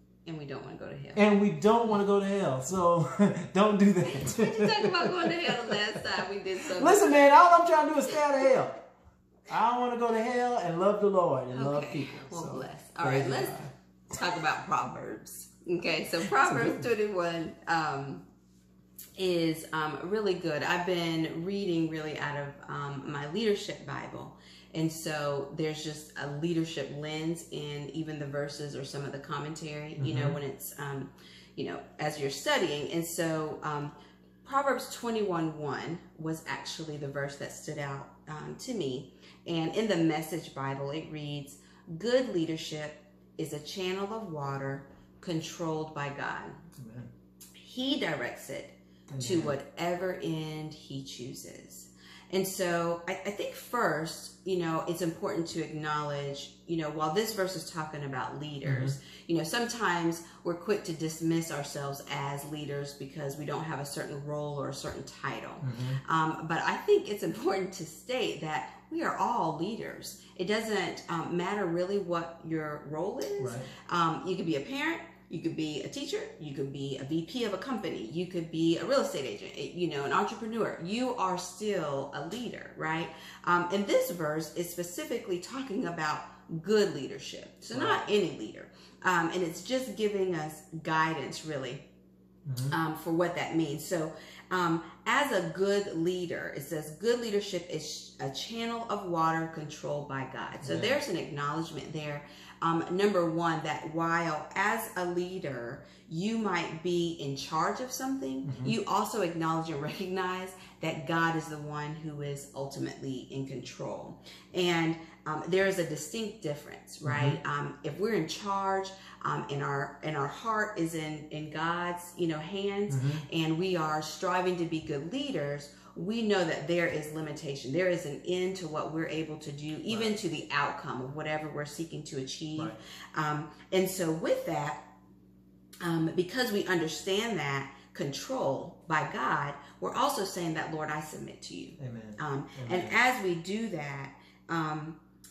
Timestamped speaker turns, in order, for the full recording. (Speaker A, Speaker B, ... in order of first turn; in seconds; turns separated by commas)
Speaker A: 0.2-1.4, Speaker B: 1.1-8.8, Speaker A: 4.0-7.2, Speaker A: 8.1-8.5, Speaker B: 9.5-13.7, Speaker A: 11.5-18.3, Speaker B: 16.2-16.9, Speaker A: 19.2-46.7, Speaker B: 30.0-30.4, Speaker B: 46.7-47.1, Speaker A: 47.5-91.8, Speaker B: 49.1-49.6, Speaker B: 58.6-59.0, Speaker B: 65.6-66.0, Speaker B: 73.4-73.7, Speaker B: 87.7-88.1, Speaker B: 92.4-92.7, Speaker A: 92.7-134.8, Speaker B: 100.6-101.0, Speaker B: 108.4-108.8, Speaker B: 117.0-117.4, Speaker B: 122.9-123.2, Speaker B: 129.9-130.2, Speaker A: 135.8-145.0, Speaker B: 141.8-142.9